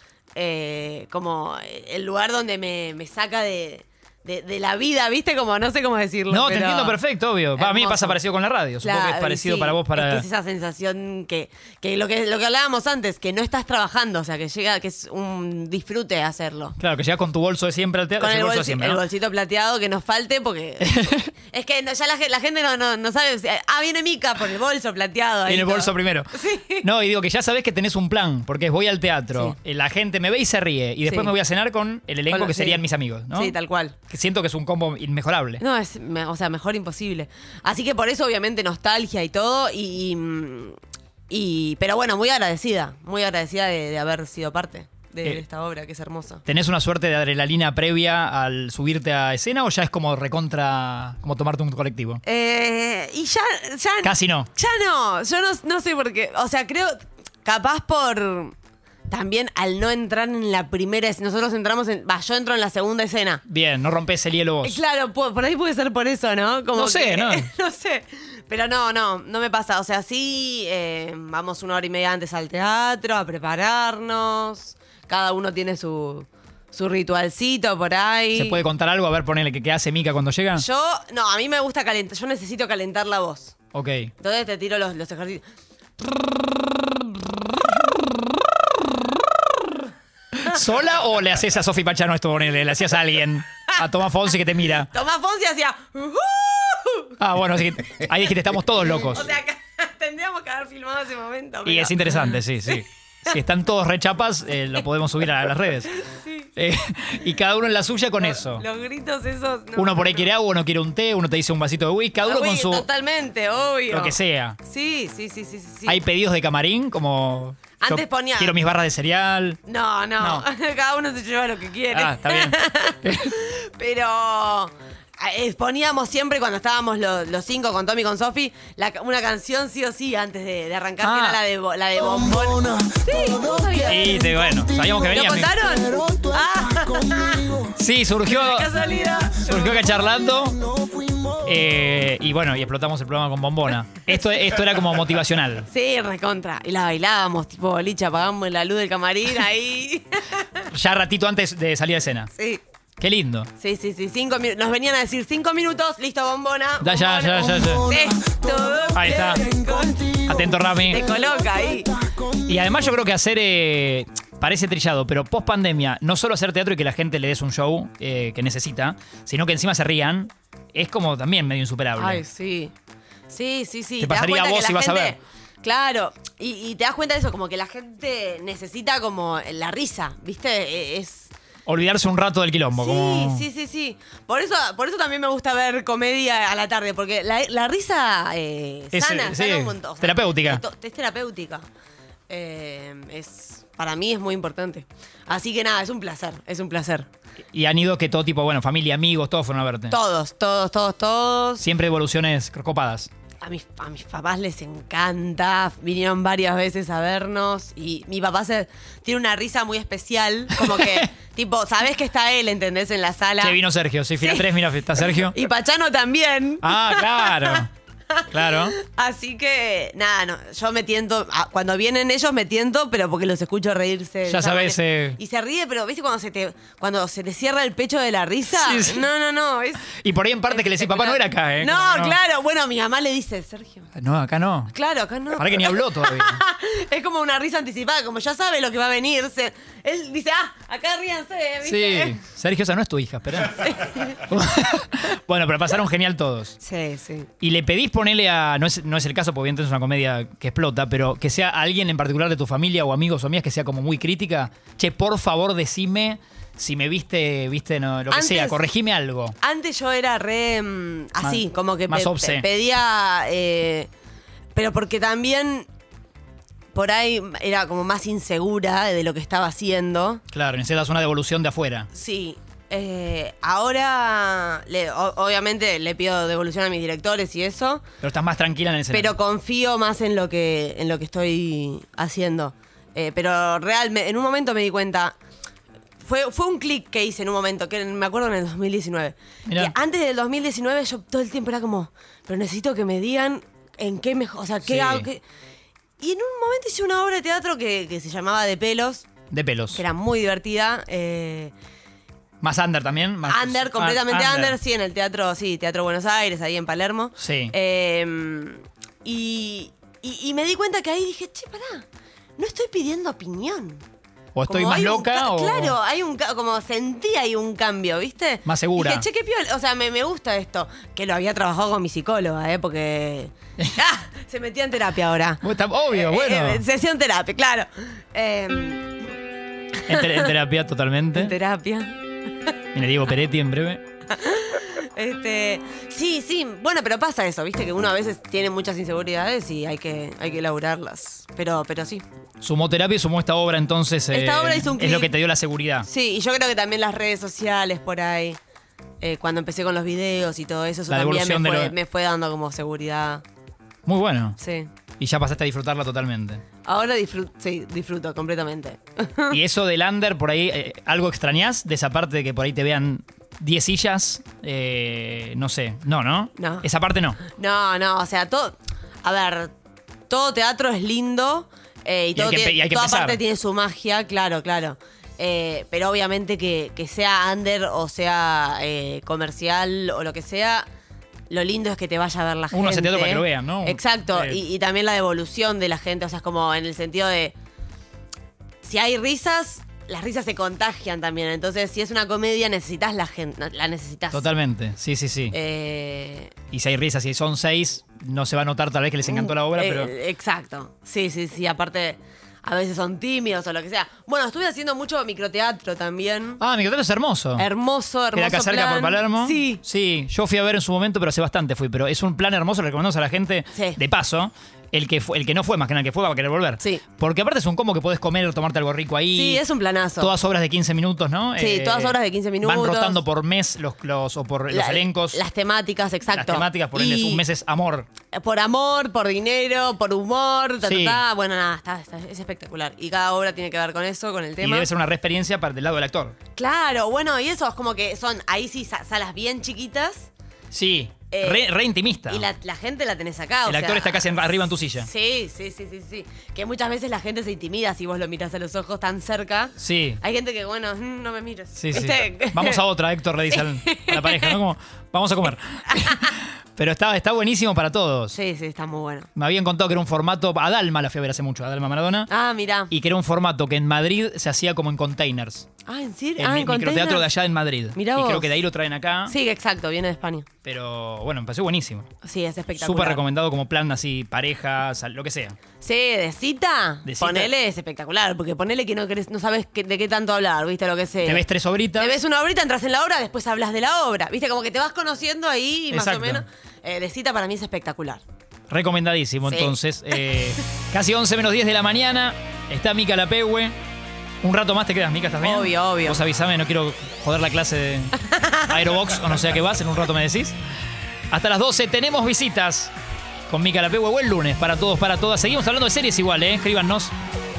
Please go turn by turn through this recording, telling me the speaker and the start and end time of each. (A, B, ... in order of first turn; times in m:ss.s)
0:00.3-0:07.0 A
0:06.3-0:10.2 B
0:07.6-0:08.2 A
0:08.8-0:16.8 A
0:16.8-0:19.0 B
0:18.2-0:26.8 A
0:20.8-0:21.3 B
0:25.4-0:33.5 B
0:31.0-0:31.3 A
0:32.3-0:34.0 A
0:34.1-0:35.6 B
0:35.6-0:40.8 A
0:41.3-0:46.4 A
0:46.4-0:52.2 B
0:52.2-0:58.5 A
0:54.0-0:54.5 B
0:59.1-1:03.4 A
1:03.5-1:04.8 B
1:04.6-1:18.6 A
1:06.7-1:07.5 B
1:18.3-1:20.6 B
1:20.5-1:23.5 A
1:23.7-1:24.1 B
1:24.2-1:25.4 A
1:30.4-1:34.9 B
1:34.8-1:37.1 A
1:37.2-1:39.3 B
1:39.1-1:43.4 A
1:41.6-1:45.9 B
1:45.9-1:46.5 A
1:46.6-1:48.6 B
1:48.2-1:50.3 A
1:49.8-1:52.8 B
1:52.2-1:56.0 A
1:53.9-1:54.6 B
1:55.8-1:59.6 B
1:57.8-1:58.6 A
1:59.6-2:14.2 A
2:00.2-2:00.4 B
2:01.9-2:03.4 B
2:11.0-2:11.4 B
2:13.8-2:15.5 B
2:15.1-2:17.6 A
2:17.7-2:18.7 B
2:18.2-2:19.6 A
2:19.4-2:20.6 B
2:21.4-2:25.7 B
2:25.7-2:30.6 A
2:30.7-2:32.3 B
2:32.3-2:32.6 A
2:33.0-2:33.5 B
2:33.6-2:41.9 A
2:36.8-2:37.9 B
2:38.9-2:39.4 B
2:40.2-2:41.0 B
2:42.4-2:52.2 B
2:52.0-2:52.7 A
2:53.3-3:01.3 A
2:54.0-2:55.2 B
3:01.6-3:03.5 B
3:02.7-3:11.6 A
3:08.9-3:10.6 B
3:12.3-3:17.1 A
3:17.5-3:20.0 B
3:19.9-3:21.7 A
3:21.6-3:23.1 B
3:23.4-3:33.6 A
3:30.6-3:31.1 B
3:33.4-3:35.3 B
3:34.2-3:49.9 A
3:36.6-3:37.7 B
3:38.3-3:38.8 B
3:44.2-3:45.2 B
3:48.5-3:49.0 B
3:49.9-3:52.2 B
3:50.5-3:53.9 A
3:54.0-3:54.7 B
3:54.7-4:02.2 A
3:55.3-3:56.4 B
4:01.6-4:06.6 B
4:03.6-4:04.2 A
4:06.6-4:07.3 A
4:07.4-4:19.4 B
4:18.1-4:18.6 A
4:19.4-4:23.9 A
4:21.2-4:22.4 B
4:24.5-4:25.7 A
4:26.7-4:30.2 A
4:30.3-4:31.9 B
4:31.9-4:37.8 A
4:38.0-4:39.1 B
4:38.9-4:45.2 A
4:46.0-4:55.2 A
4:49.5-4:49.7 B
4:54.7-4:55.1 B
4:56.0-4:59.1 A
4:59.3-4:59.8 B
4:59.7-5:01.5 A
5:02.4-5:04.6 B
5:03.3-5:11.8 A
5:07.2-5:07.5 B
5:12.4-5:13.8 A
5:14.3-5:15.8 B
5:14.5-5:28.9 A
5:18.4-5:19.1 B
5:25.4-5:26.6 B
5:29.8-5:30.3 A
5:29.9-5:31.3 B
5:31.1-5:32.0 A
5:32.7-5:33.8 B
5:34.1-5:42.0 A
5:42.4-5:45.9 B
5:44.1-5:45.1 A
5:45.8-5:48.4 A
5:49.0-5:53.2 A
5:50.9-5:51.7 B
5:53.8-5:54.4 B
5:54.4-5:54.7 A
5:55.0-5:56.4 B
5:56.6-5:59.4 A
5:59.3-6:07.2 B
6:06.4-6:06.7 A
6:07.2-6:09.5 A
6:10.1-6:20.7 A
6:12.1-6:13.2 B
6:21.3-6:27.3 A
6:22.5-6:24.4 B
6:28.6-6:34.3 A
6:34.1-6:35.3 B
6:35.3-6:36.3 A
6:36.5-6:39.9 B
6:39.0-6:46.4 A
6:46.4-6:47.5 B
6:47.4-6:49.6 A
6:48.1-6:59.4 B
6:53.5-6:53.8 A
6:59.1-7:00.1 A
7:00.0-7:05.2 B
7:01.4-7:03.0 A
7:04.5-7:07.2 A
7:06.1-7:07.9 B
7:08.1-7:14.7 A
7:10.6-7:11.0 B
7:14.4-7:16.1 B
7:16.3-7:20.1 A
7:20.5-7:22.2 B
7:21.1-7:21.5 A
7:22.0-7:32.6 A
7:23.4-7:24.9 B
7:29.6-7:30.0 B
7:31.6-7:38.2 B
7:33.3-7:34.4 A
7:35.7-7:36.1 A
7:38.1-7:39.1 A
7:39.2-7:42.1 B
7:42.1-7:42.7 A
7:42.7-7:45.5 B
7:45.6-7:47.1 A
7:46.2-7:49.1 B
7:47.7-7:48.3 A
7:49.1-7:50.3 A
7:50.4-7:51.9 B
7:52.0-7:53.0 A
7:52.5-7:55.4 B
7:55.6-8:01.2 A
7:56.8-7:57.3 B
8:01.0-8:02.0 B
8:01.8-8:08.0 A
8:05.7-8:06.2 B
8:08.5-8:13.5 B
8:09.2-8:09.6 A
8:14.2-8:20.4 B
8:15.2-8:16.0 A
8:18.0-8:18.5 A
8:21.1-8:22.7 B
8:23.3-8:26.9 B